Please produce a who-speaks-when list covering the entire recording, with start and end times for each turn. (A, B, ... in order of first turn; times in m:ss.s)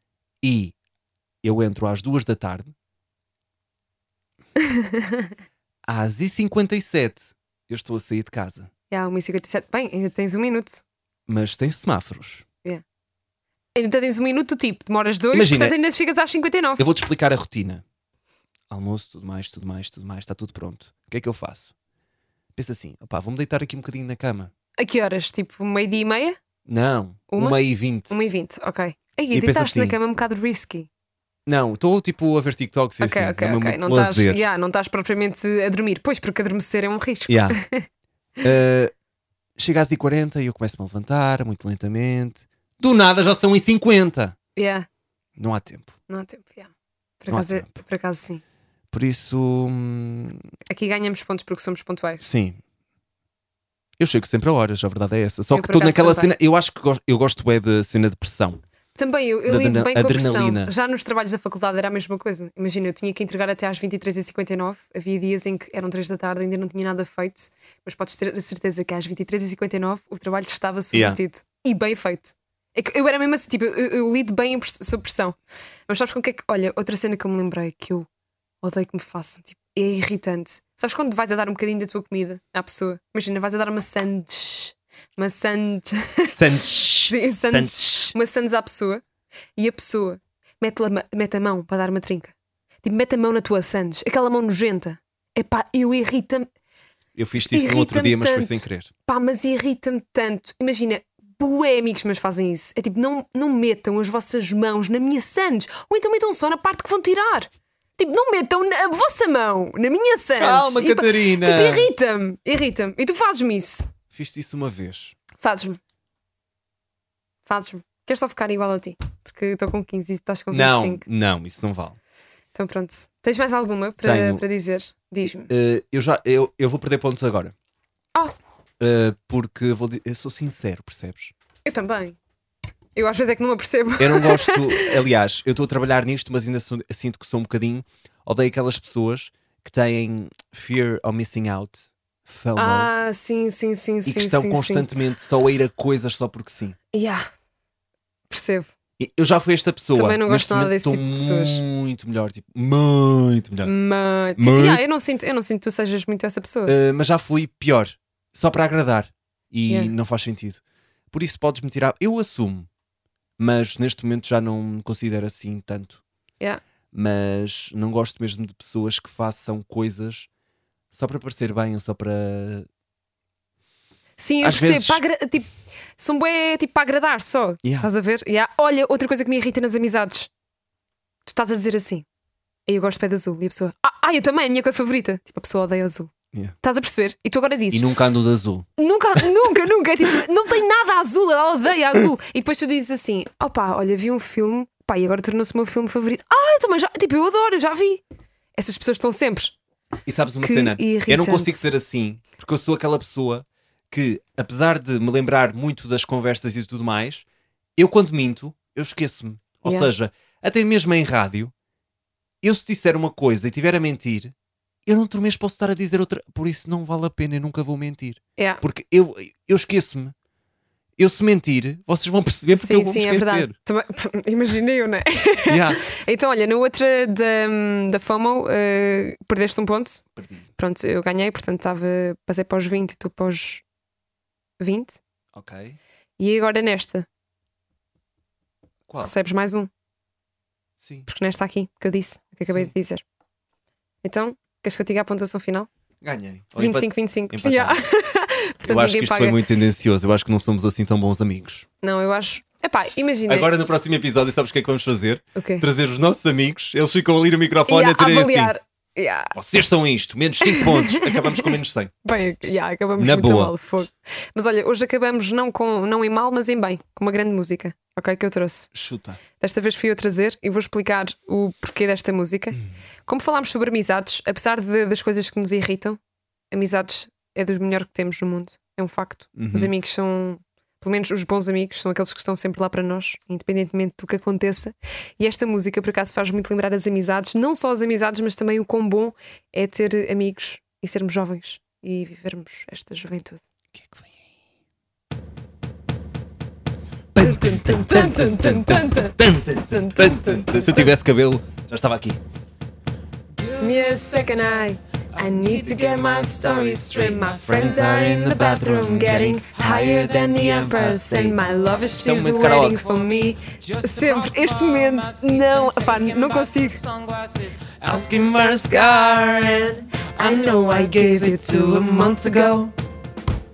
0:00.4-0:00.8 A
0:01.4-0:02.7 A
0:04.6-0:05.3 B
0:05.9-0:08.7 A
0:08.9-0:10.8 B
0:11.3-0:12.4 A
0:13.8-0:16.9 B
0:15.3-0:15.8 A
0:16.8-0:17.8 A
0:18.7-0:21.7 A
0:22.6-0:24.5 A
0:24.8-0:26.4 B
0:26.7-0:28.2 A
0:27.3-0:30.9 B
0:29.3-0:30.0 A
0:31.5-0:34.4 A
0:33.0-0:37.9 B
0:37.3-0:37.6 A
0:38.4-0:38.9 A
0:39.6-0:44.4 A
0:44.6-0:44.9 B
0:45.4-0:45.9 A
0:46.1-0:48.4 B
0:47.3-0:47.7 A
0:48.9-0:50.4 A
0:50.7-0:52.2 B
0:52.2-0:52.6 A
0:54.0-0:58.6 A
0:55.5-0:56.4 B
0:59.0-1:15.4 B
0:59.5-1:00.7 A
1:10.9-1:11.2 A
1:15.9-1:18.1 B
1:18.6-1:29.0 B
1:26.4-1:28.2 A
1:29.6-1:36.5 B
1:37.2-1:38.9 A
1:37.4-1:53.9 B
1:50.4-1:51.9 A
1:54.1-1:55.2 A
1:55.4-1:55.8 B
1:57.5-2:01.0 B
2:00.5-2:02.0 A
2:02.5-2:05.5 B
2:04.0-2:04.4 A
2:05.5-2:07.5 A
2:08.8-2:11.3 A
2:11.6-2:12.2 B
2:13.0-2:14.9 B
2:14.0-2:22.9 A
2:22.6-2:24.9 B
2:24.0-2:26.8 A
2:26.9-2:27.2 B
2:28.3-2:28.7 B
2:29.0-2:33.7 A
2:29.9-2:31.6 B
2:33.6-2:36.7 B
2:34.4-2:34.8 A
2:36.7-2:40.6 A
2:41.1-2:42.7 A
2:43.4-2:46.0 A
2:46.9-2:50.3 A
2:50.9-2:52.7 A
2:54.2-3:00.3 B
2:54.4-2:55.0 A
2:57.6-2:57.9 A
3:01.3-3:02.1 B
3:02.7-3:07.9 B
3:07.7-3:08.7 A
3:08.8-3:18.0 B
3:18.6-3:19.6 B
3:20.1-3:27.2 A
3:20.4-3:21.7 B
3:27.8-3:31.5 A
3:32.4-3:34.3 A
3:34.9-3:40.1 A
3:38.4-3:38.6 B
3:41.0-3:43.6 A
3:42.5-3:50.1 B
3:45.5-3:45.8 A
3:50.2-3:50.5 A
3:50.6-3:53.6 B
3:54.6-3:55.0 B
3:55.3-3:55.8 A
3:56.2-3:57.1 B
3:58.9-3:59.1 A
3:59.0-3:59.7 B
4:00.8-4:01.1 A
4:01.1-4:03.0 B
4:04.0-4:05.7 B
4:06.0-4:07.8 A
4:06.6-4:09.4 B
4:08.6-4:11.7 A
4:11.8-4:13.5 B
4:13.3-4:18.5 A
4:15.4-4:15.7 B
4:17.7-4:19.4 B
4:19.3-4:21.9 A
4:20.4-4:21.5 B
4:22.0-4:28.7 B
4:23.0-4:23.5 A
4:28.7-4:29.2 A
4:29.4-4:36.0 B
4:36.5-4:53.4 B
4:39.4-4:39.7 A
4:53.7-4:54.1 A
4:57.1-5:02.2 A
4:57.2-5:00.9 B
5:03.5-5:16.9 B
5:05.8-5:12.9 A
5:17.8-5:22.7 A
5:20.2-5:22.2 B